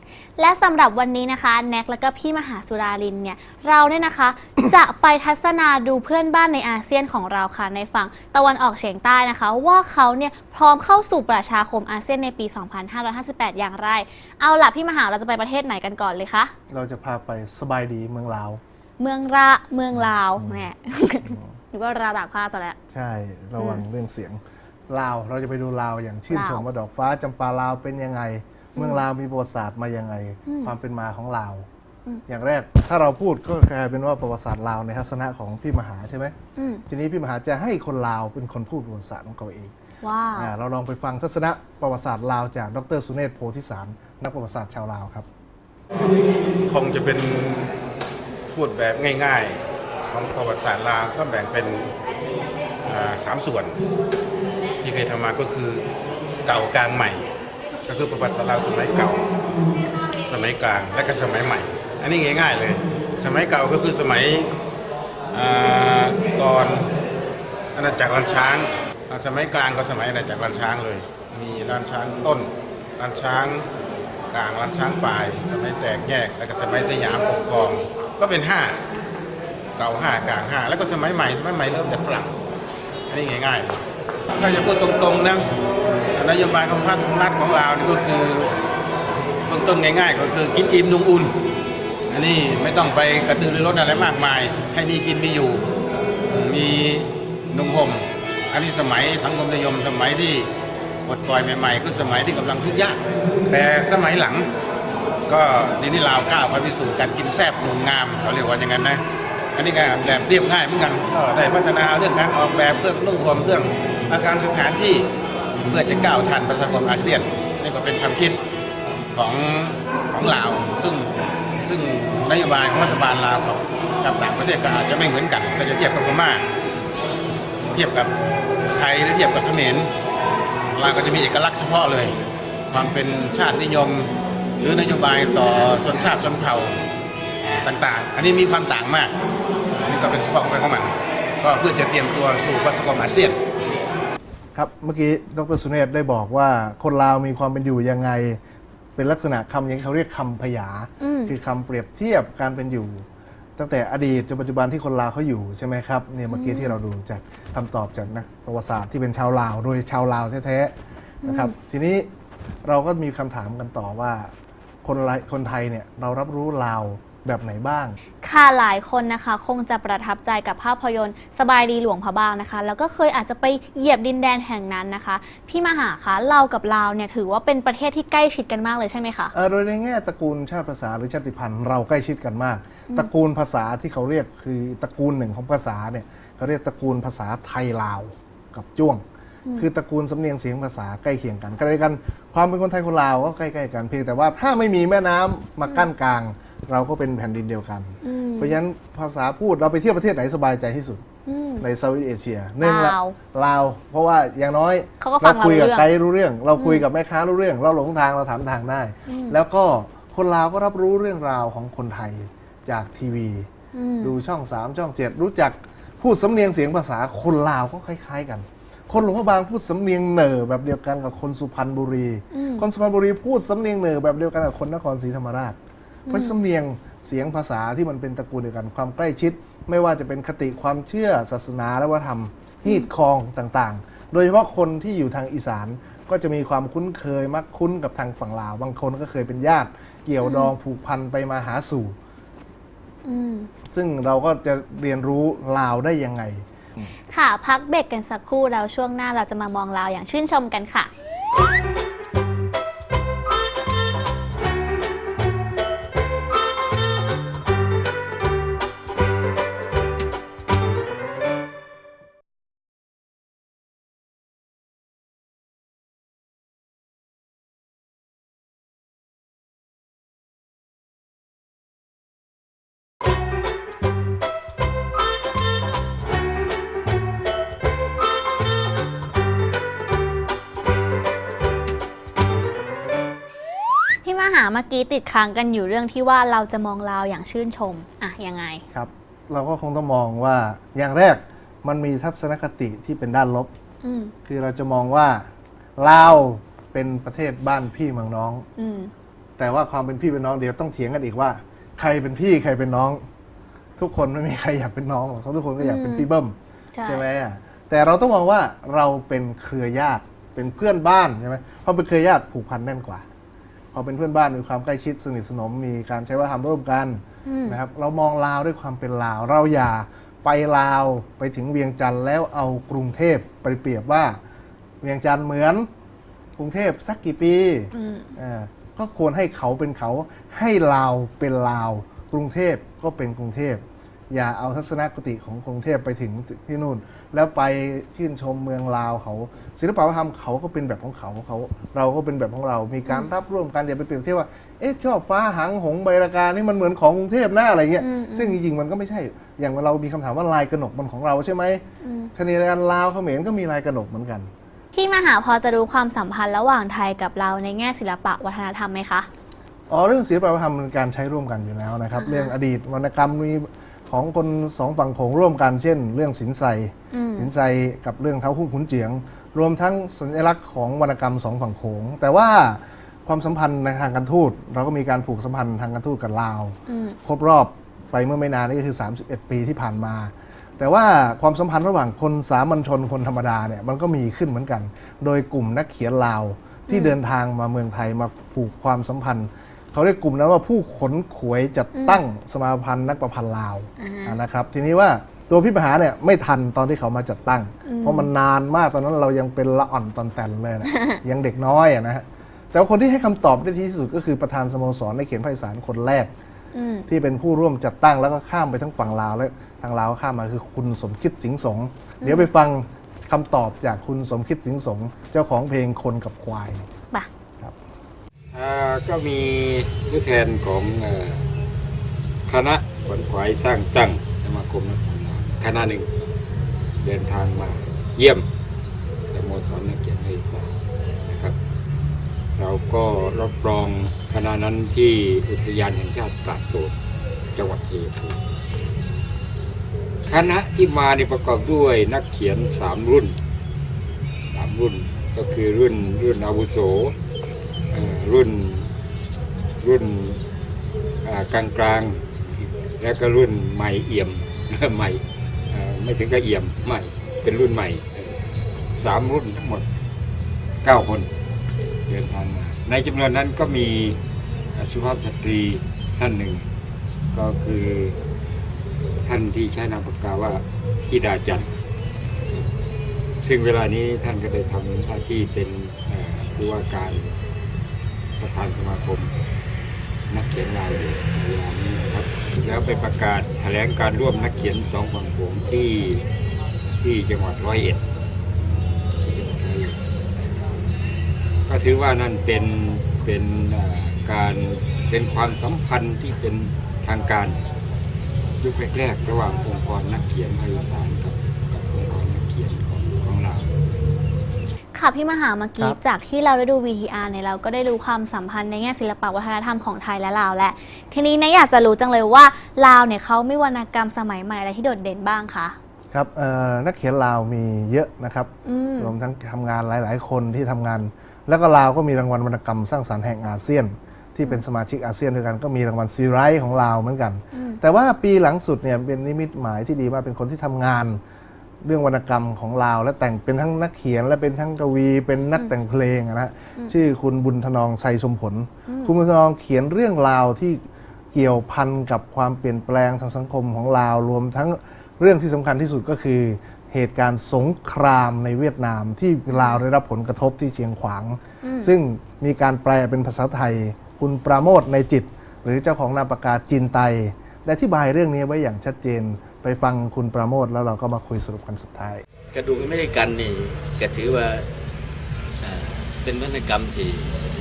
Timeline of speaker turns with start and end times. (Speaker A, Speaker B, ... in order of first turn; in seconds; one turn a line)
Speaker A: 0.4-16.5
Speaker B: 16.7-18.6
Speaker A: 19.0-22.8
Speaker B: 20.0-20.7
Speaker B: 21.2-21.5
Speaker B: 22.9-31.6
Speaker A: 23.6-23.8
Speaker A: 26.3-26.6
Speaker A: 28.8-29.0
Speaker A: 30.5-30.7
Speaker B: 32.3-36.3
Speaker A: 36.5-36.8
Speaker B: 36.9-39.7
Speaker A: 40.0-40.5
Speaker B: 40.3-45.3
Speaker C: 46.6-47.7
Speaker C: 48.5-51.9
Speaker C: 52.8-53.8
Speaker C: 54.8-55.8
Speaker C: 56.5-57.3
Speaker C: 57.9-59.2
Speaker C: 60.3-64.5
Speaker C: 65.3-66.9
Speaker C: 67.7-73.7
Speaker C: 74.3-78.8
Speaker C: 79.8-82.3
Speaker C: 83.1-83.8
Speaker C: 84.3-85.4
Speaker C: 86.1-88.5
Speaker C: 89.5-91.3
Speaker C: 92.1-95.7
Speaker C: 96.3-100.5
Speaker C: 101.0-104.5
Speaker C: 105.3-109.0
Speaker C: 109.5-115.1
Speaker C: 115.6-118.4
Speaker C: 119.1-126.5
Speaker C: 127.7-128.1
Speaker C: 128.7-129.9
Speaker C: 130.7-132.2
Speaker C: 132.7-136.8
Speaker C: 137.6-139.1
Speaker C: 139.8-143.4
Speaker B: 144.5-148.4
Speaker B: 148.9-153.1
Speaker A: 151.0-151.3
Speaker B: 153.6-160.7
Speaker A: 156.3-156.7
Speaker A: 161.2-161.5
Speaker B: 161.2-162.1
Speaker B: 162.6-164.3
Speaker B: 164.8-168.0
Speaker A: 168.2-179.3
Speaker B: 179.3-189.0
Speaker B: 189.6-201.0
Speaker A: 198.0-198.6
Speaker A: 201.2-201.6
Speaker B: 201.6-213.5
Speaker A: 202.6-203.2
Speaker A: 205.0-205.8
Speaker A: 206.6-206.8
Speaker A: 209.1-209.4
Speaker A: 213.7-214.1
Speaker B: 214.0-225.6
Speaker A: 222.3-222.7
Speaker A: 226.1-226.3
Speaker B: 226.1-241.9
Speaker A: 240.2-240.5
Speaker A: 243.0-243.5
Speaker B: 243.7-246.9
Speaker A: 247.1-250.9
Speaker A: 284.0-288.6
Speaker B: 288.7-293.5
Speaker A: 293.8-294.1
Speaker B: 294.2-295.2
Speaker B: 295.8-298.4
Speaker A: 298.6-298.9
Speaker B: 299.4-303.0
Speaker B: 303.8-313.0
Speaker A: 305.6-306.1
Speaker A: 306.7-307.0
Speaker B: 313.7-324.2
Speaker A: 317.2-317.6
Speaker B: 324.8-325.7
Speaker B: 326.4-351.6
Speaker A: 327.7-328.1
Speaker A: 347.8-348.4
Speaker A: 351.8-352.1
Speaker B: 352.1-354.3
Speaker A: 354.7-359.1
Speaker B: 359.7-406.1
Speaker A: 362.0-362.3
Speaker A: 366.9-367.3
Speaker A: 376.7-377.0
Speaker A: 386.7-386.9
Speaker A: 391.7-392.0
Speaker A: 393.8-394.2
Speaker A: 397.6-398.1
Speaker A: 400.7-401.0
Speaker A: 406.5-406.9
Speaker B: 406.9-416.6
Speaker A: 412.0-412.3
Speaker D: 418.3-421.2
Speaker D: 422.3-425.9
Speaker D: 426.8-428.3
Speaker D: 429.1-430.5
Speaker D: 431.1-431.4
Speaker D: 432.4-436.7
Speaker D: 437.3-438.2
Speaker D: 440.1-443.2
Speaker D: 444.3-447.0
Speaker D: 447.7-448.7
Speaker D: 449.6-450.2
Speaker D: 451.0-458.2
Speaker D: 458.7-459.6
Speaker D: 460.6-461.1
Speaker D: 461.9-464.0
Speaker D: 464.5-466.4
Speaker D: 467.1-468.0
Speaker D: 469.0-471.5
Speaker D: 473.2-477.1
Speaker D: 478.2-479.1
Speaker D: 480.1-486.0
Speaker D: 486.8-487.8
Speaker D: 489.0-489.8
Speaker D: 491.5-497.4
Speaker D: 498.4-503.5
Speaker A: 504.7-515.5
Speaker B: 515.9-531.0
Speaker A: 518.5-518.9
Speaker A: 527.3-527.6
Speaker B: 531.6-540.6
Speaker A: 538.7-538.9
Speaker B: 541.1-562.0
Speaker A: 549.3-549.6
Speaker A: 551.4-551.7
Speaker E: 562.3-564.4
Speaker E: 565.4-567.1